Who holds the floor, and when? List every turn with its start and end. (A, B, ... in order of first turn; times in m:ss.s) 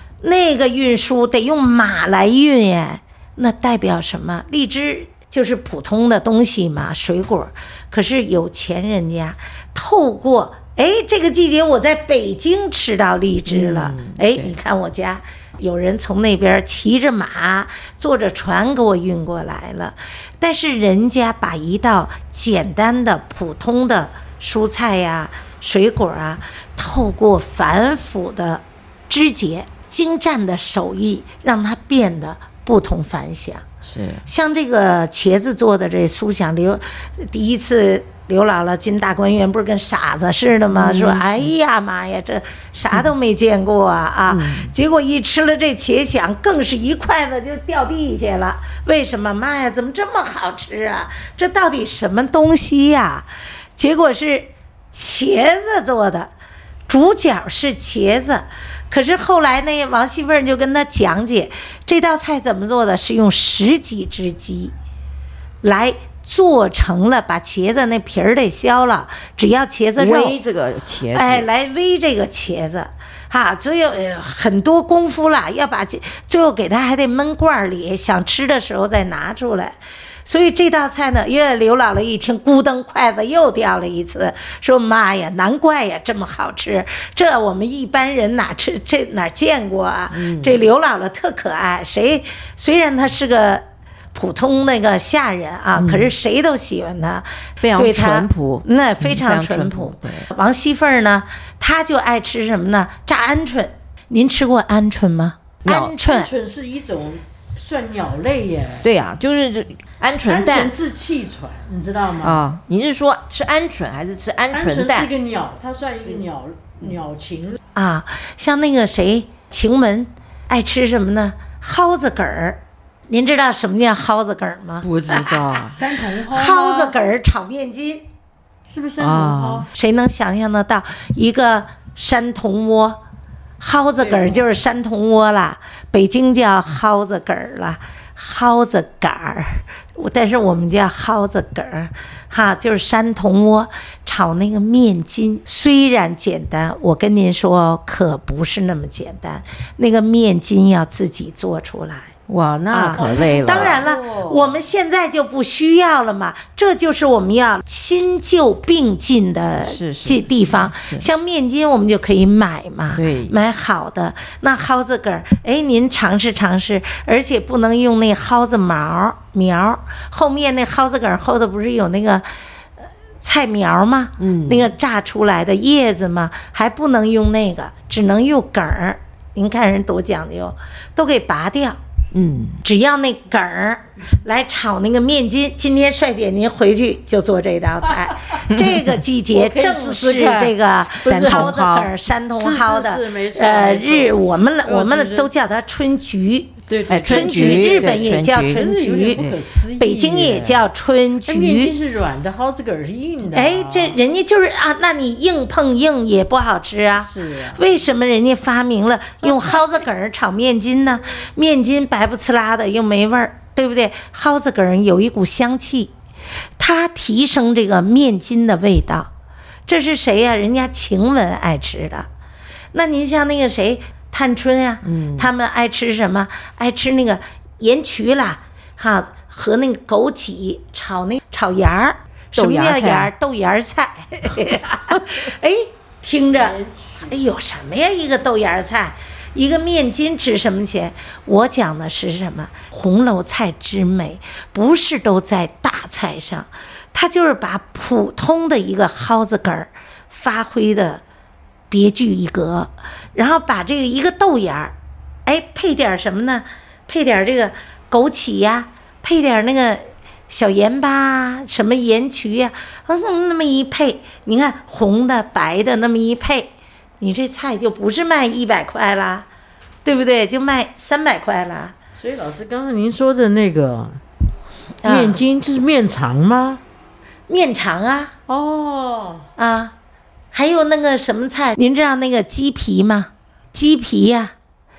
0:00.2-0:33.6 A
0:13.5-0:14.6 B
0:33.8-0:34.2 B
0:34.2-0:56.3 A
0:40.7-0:41.5 B
0:44.3-0:44.7 B
0:56.9-1:04.7 A
1:05.6-1:10.4 A
1:10.0-1:11.5 B
1:11.1-1:46.3 A
1:30.1-1:30.6 B
1:35.8-1:36.1 B
1:37.6-1:40.3 B
1:45.6-1:45.9 B
1:46.0-1:48.8 C
1:48.8-1:50.7 B
1:50.2-1:52.4 C
1:52.2-1:55.1 B
1:54.5-1:57.6 C
1:57.7-2:05.7 A
2:04.8-2:05.8 B
2:05.2-2:07.0 C
2:06.2-2:08.1 A
2:08.7-2:09.7 C
2:09.0-2:09.7 B
2:09.7-2:13.0 A
2:13.6-2:32.1 A
2:14.0-2:14.4 C
2:32.3-2:33.8 B
2:32.7-2:52.3 A
2:33.0-2:34.6 C
2:39.6-2:41.1 B
2:42.9-2:43.4 B
2:53.2-3:01.8 A
2:54.2-2:54.7 B
3:02.1-3:02.6 B
3:02.6-3:19.2 A
3:08.5-3:08.9 B
3:09.3-3:11.6 C
3:11.0-3:11.9 B
3:12.3-3:15.3 C
3:16.7-3:20.6 C
3:16.9-3:19.4 B
3:19.8-3:21.7 A
3:21.2-3:24.0 C
3:23.3-3:35.9 A
3:26.9-3:27.6 C
3:29.2-3:29.8 C
3:36.6-3:39.1 A
3:39.7-3:42.1 A
3:42.7-4:11.0 A
3:44.8-3:45.3 B
3:52.3-3:53.1 B
3:56.3-3:57.2 C
4:11.7-4:14.7 A
4:15.2-4:29.3 A
4:29.8-4:31.7 A
4:32.0-4:34.0 C
4:34.8-4:35.2 A
4:34.8-4:36.6 C
4:37.3-4:38.1 A
4:38.3-4:39.3 C
4:39.4-4:39.7 A
4:40.3-4:44.3 A